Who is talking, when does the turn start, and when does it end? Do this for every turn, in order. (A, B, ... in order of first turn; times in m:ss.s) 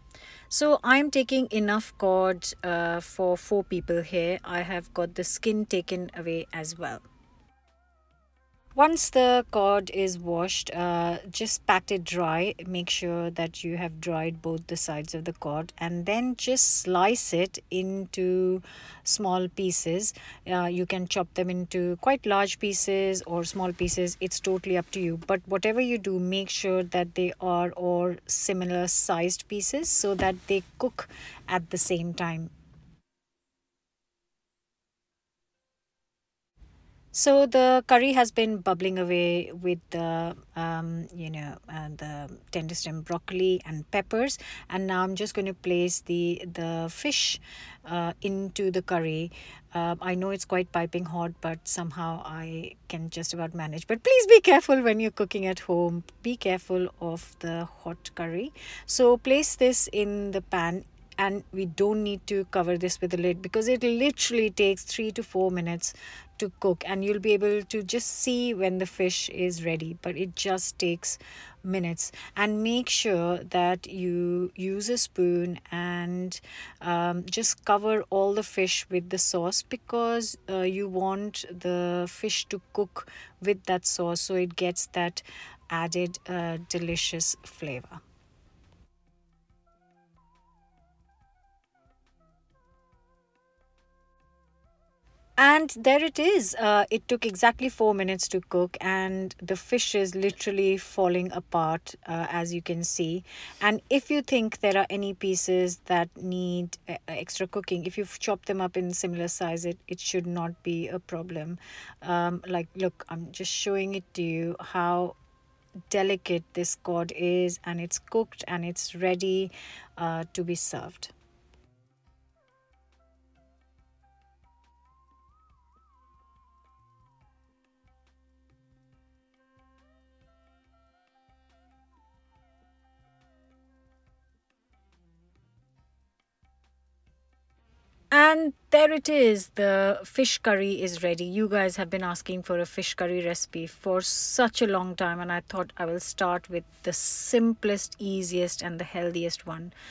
0:00.5-0:07.0 A
0:08.7-0:32.5 A
0:37.1-1:28.0 A
1:35.4-1:55.1 A
1:55.9-2:01.1 A
2:18.1-2:29.7 A